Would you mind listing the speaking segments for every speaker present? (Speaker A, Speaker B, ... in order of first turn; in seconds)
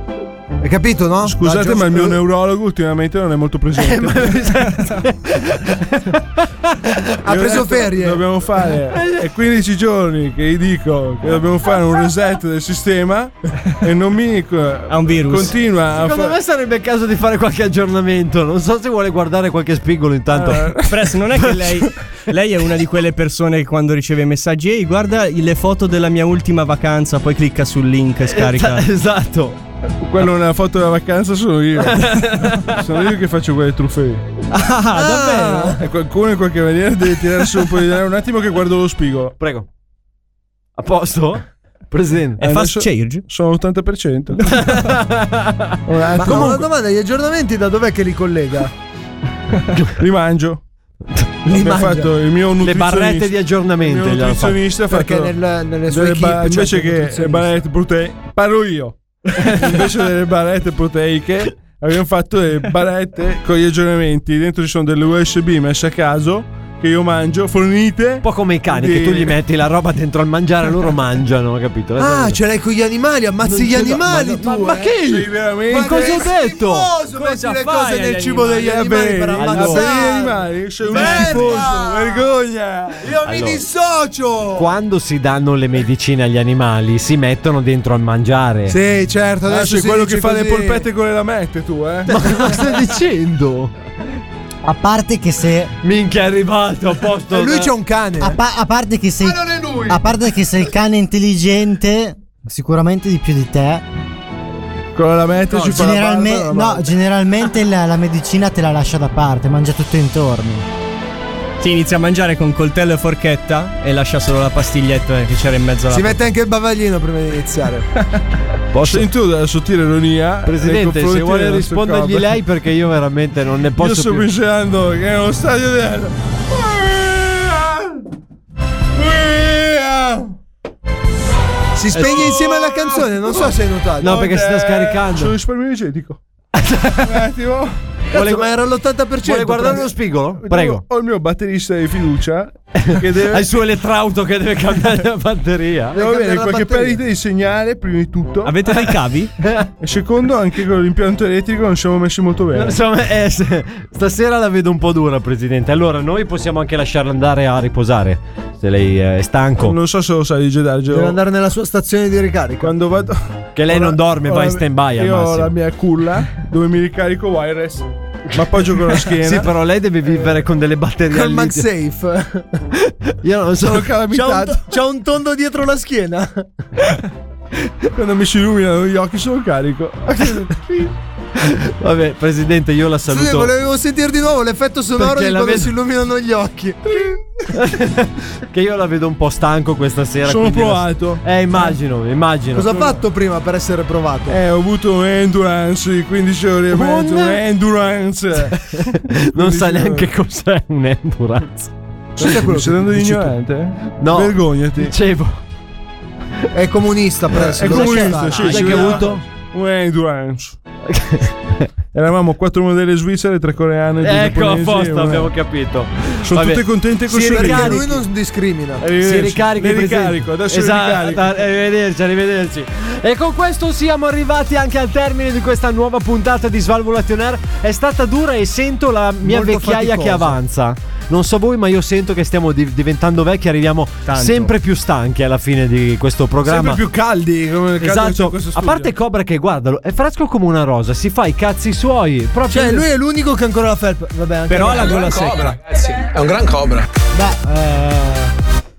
Speaker A: 0.6-2.2, 7.2-8.2, 34.9-35.8, 46.2-48.7, 51.5-52.1, 54.9-57.5, 72.0-75.2, 75.7-82.2, 83.0-84.7, 88.7-90.8, 92.1-93.1, 97.3-98.4, 99.3-100.0, 105.5-106.9, 115.9-117.9, 131.8-134.3, 138.1-139.9, 145.9-147.0, 160.9-162.7, 171.1-172.5, 174.1-176.5, 183.1-187.2, 192.5-194.4, 202.2-203.3, 206.5-209.2, 217.1-218.8, 229.2-230.4, 242.5-245.3
Speaker B: 1.2-4.9, 7.3-16.4, 20.3-21.1, 30.0-34.2, 35.8-39.4, 42.4-44.6, 45.9-46.7, 49.9-50.6, 51.5-55.4, 55.9-69.4, 75.0-76.3, 78.6-83.1, 89.5-92.2, 105.0-106.1, 118.8-122.3, 123.8-128.0, 128.9-130.3, 131.9-136.2, 137.0-137.8, 140.4-143.5, 145.9-148.5, 149.8-152.8, 159.6-161.2, 162.6-169.5, 173.6-174.7, 177.9-180.6, 190.2-191.2, 194.3-200.1, 202.2-204.9, 207.3-210.6, 211.9-215.3, 216.2-217.8, 218.8-221.4, 236.4-238.9, 245.8-246.3
Speaker C: 3.8-7.0, 15.9-20.8, 28.2-29.6, 31.9-32.8, 35.3-35.7, 39.4-39.7, 40.8-42.4, 44.5-46.6, 51.1-51.7, 52.6-54.6, 59.4-59.9, 68.2-72.4, 73.4-76.9, 79.3-79.9, 80.9-81.7, 83.2-83.6, 84.5-88.8, 92.1-93.7, 95.8-97.7, 118.7-119.1, 120.5-124.3, 131.9-132.3, 134.0-135.3, 136.6-137.1, 138.1-138.5, 139.2-140.8, 142.8-146.0, 149.4-149.7, 152.5-159.8, 163.6-165.5, 169.1-171.7, 172.8-174.0, 181.4-183.5, 185.0-185.7, 187.5-193.0, 196.7-197.4, 198.7-201.7, 204.0-205.4, 207.6-209.2, 210.9-211.7, 214.0-216.6, 217.3-218.0, 218.9-236.8, 237.8-242.8
Speaker D: 14.9-15.6, 20.9-28.9, 34.5-35.7, 42.4-43.2, 44.4-44.7, 77.1-78.8, 111.6-116.2, 148.4-149.3, 234.1-234.5, 244.5-245.7
Speaker E: 94.7-95.7, 98.2-103.8, 105.6-110.7, 247.1-248.3